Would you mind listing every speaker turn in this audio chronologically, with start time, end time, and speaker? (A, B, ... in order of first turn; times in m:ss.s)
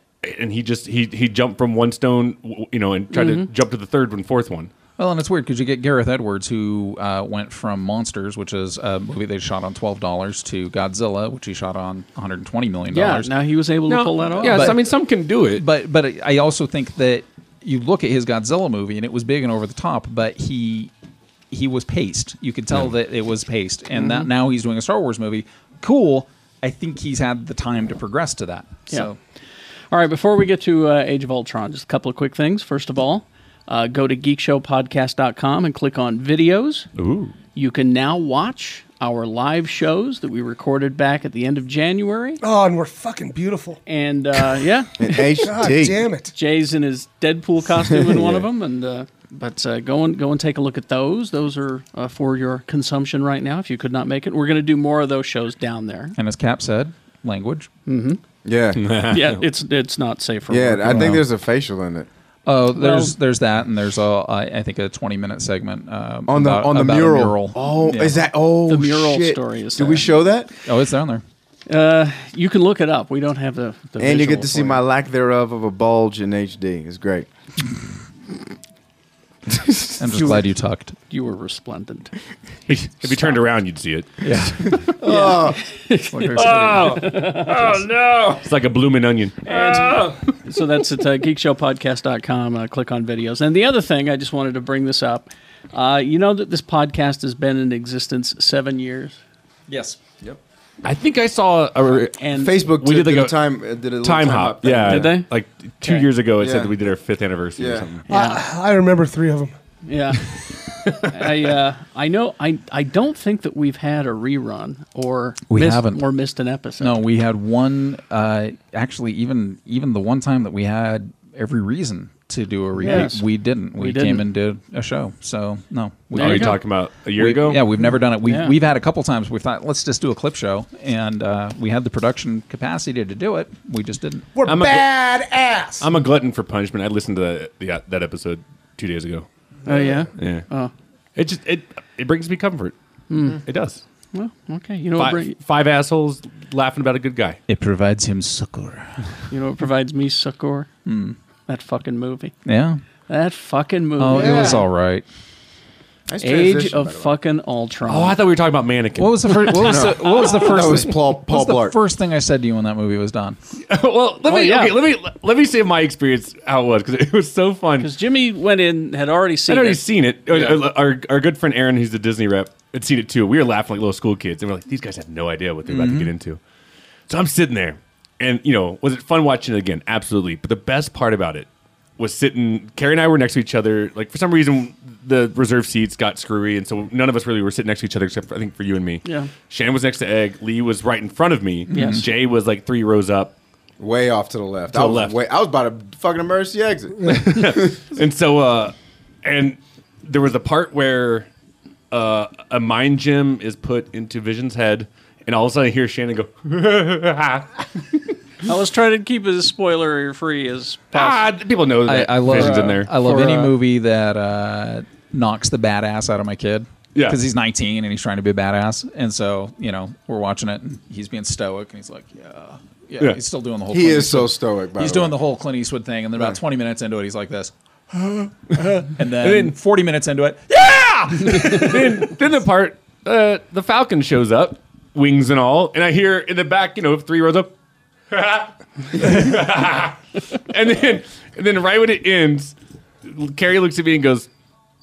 0:00.2-0:04.7 A
0:03.1-0:03.5 B
0:05.0-0:13.3 C
0:12.9-0:14.8 B
0:13.9-0:15.6 A
0:14.4-0:14.8 C
0:15.6-0:20.9 C
0:21.5-0:29.2 C
0:23.9-0:24.3 B
0:29.9-0:36.9 B
0:37.0-0:37.3 A
0:37.6-0:42.4 B
0:42.4-0:43.8 D
0:43.9-0:45.5 B
0:45.0-0:46.1 E
0:45.4-0:46.3 D
0:46.3-0:56.2 B
0:47.9-0:48.4 E
0:56.2-0:57.7 C
0:57.9-0:58.2 B
0:58.4-0:58.8 E
0:58.8-0:59.4 A
0:59.1-1:01.2 B
1:00.5-1:02.1 E
1:00.8-1:01.2 C
1:02.5-1:08.2 C
1:02.7-1:03.1 B
1:06.3-1:10.5 E
1:08.7-1:10.1 B
1:10.6-1:11.2 C
1:11.7-1:14.8 B
1:14.0-1:17.3 E
1:20.0-1:21.0 C
1:20.1-1:20.4 B
1:21.1-1:22.1 B
1:22.7-1:24.8 A
1:24.2-1:24.9 C
1:25.0-1:25.6 E
1:25.0-1:27.8 B
1:26.1-1:27.1 C
1:26.3-1:30.4 A
1:29.5-1:39.2 B
1:39.7-1:40.0 C
1:40.8-1:43.4 A
1:42.2-1:42.5 B
1:42.4-1:45.1 E
1:44.0-1:48.1 A
1:44.8-1:45.3 B
1:46.4-1:46.8 E
1:47.6-1:47.9 E
1:48.1-1:48.4 B
1:48.1-1:49.5 D
1:49.8-1:50.4 B
1:51.0-1:57.0 B
1:55.5-1:56.0 C
1:56.8-2:14.3 C
2:02.8-2:04.3 B
2:06.1-2:06.6 B
2:06.2-2:07.6 A
2:08.2-2:08.6 B
2:14.4-2:15.9 D
2:14.5-2:14.9 A
2:15.8-2:19.3 A
2:19.7-2:20.7 B
2:19.7-2:20.0 D
2:20.2-2:20.4 A
2:21.2-2:22.8 A
2:23.1-2:23.4 B
2:23.4-2:23.8 A
2:24.1-2:25.4 B
2:25.0-2:27.4 A
2:27.5-2:29.1 C
2:29.3-2:30.7 B
2:30.9-2:31.2 C
2:31.5-2:32.3 B
2:32.5-2:32.8 C
2:33.1-2:34.6 B
2:34.0-2:35.0 C
2:34.2-2:34.6 D
2:36.1-2:37.1 E
2:36.2-2:38.2 B
2:37.9-2:39.8 A
2:39.0-2:43.4 C
2:39.6-2:41.8 E
2:43.7-2:47.9 A
2:44.2-2:44.8 B
2:47.8-2:49.8 B
2:49.5-2:56.4 A
2:55.7-2:56.1 C
2:57.1-3:13.3 A
3:09.0-3:09.3 B
3:11.7-3:12.0 C
3:11.7-3:12.0 B
3:13.8-3:17.8 E
3:14.7-3:15.2 A
3:17.1-3:21.3 A
3:21.9-3:27.5 A
3:28.4-3:31.3 B
3:30.9-3:32.9 A
3:31.8-3:52.2 C
3:32.3-3:33.6 B
3:43.7-3:45.1 E
3:49.1-3:49.6 A
3:51.2-3:57.5 A
3:58.1-4:04.3 A